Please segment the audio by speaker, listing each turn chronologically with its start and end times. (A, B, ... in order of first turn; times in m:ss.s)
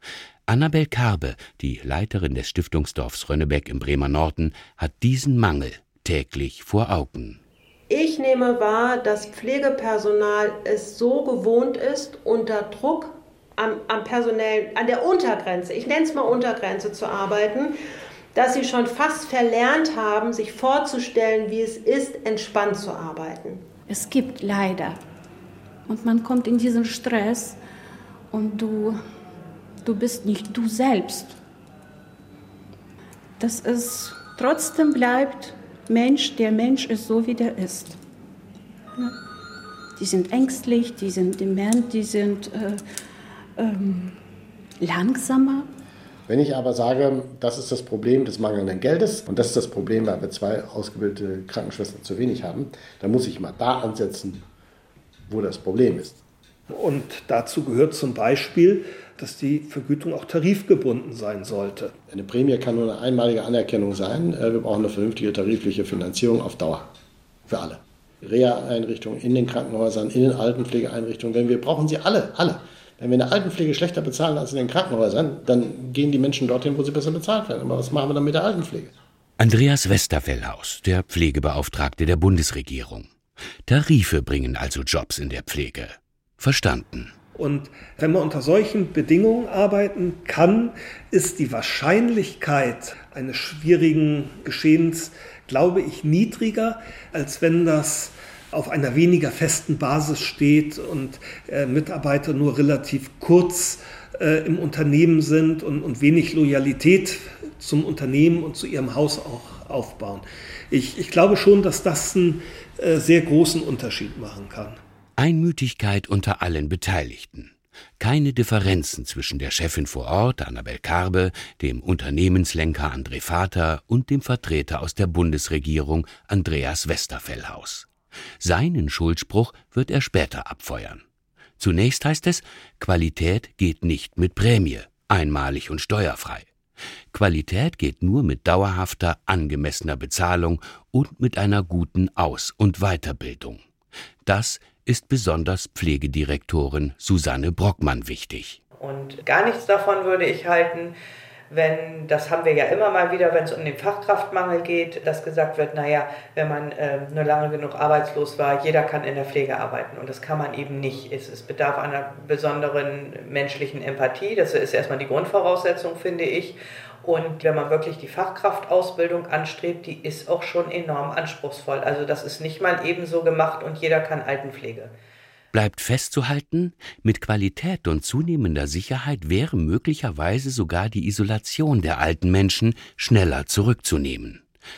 0:00.5-0:07.4 A
0:07.9-0:17.7 B
0:18.3-0:23.6 B
0:23.9-0:25.0 C
0:25.9-0:27.6 C
0:28.3-0:29.0 C
0:29.8-0:31.4 C
0:33.4-0:38.0 C
0:40.0-0:42.8 C
0:43.6-0:44.2 C
0:44.8-0:45.7 C
0:46.3-0:54.4 D
0:55.3-0:56.2 D
0:56.7-1:02.0 E
1:02.1-1:06.9 D
1:07.5-1:18.9 D
1:19.4-1:23.1 A
1:23.7-1:27.2 A
1:27.4-1:54.8 E
1:55.2-2:07.9 A
2:08.4-2:11.0 A
2:11.6-2:16.5 A
2:17.1-2:23.6 A
2:24.2-2:28.6 A
2:28.8-2:30.9 F
2:31.5-2:54.9 F
2:55.5-3:04.4 A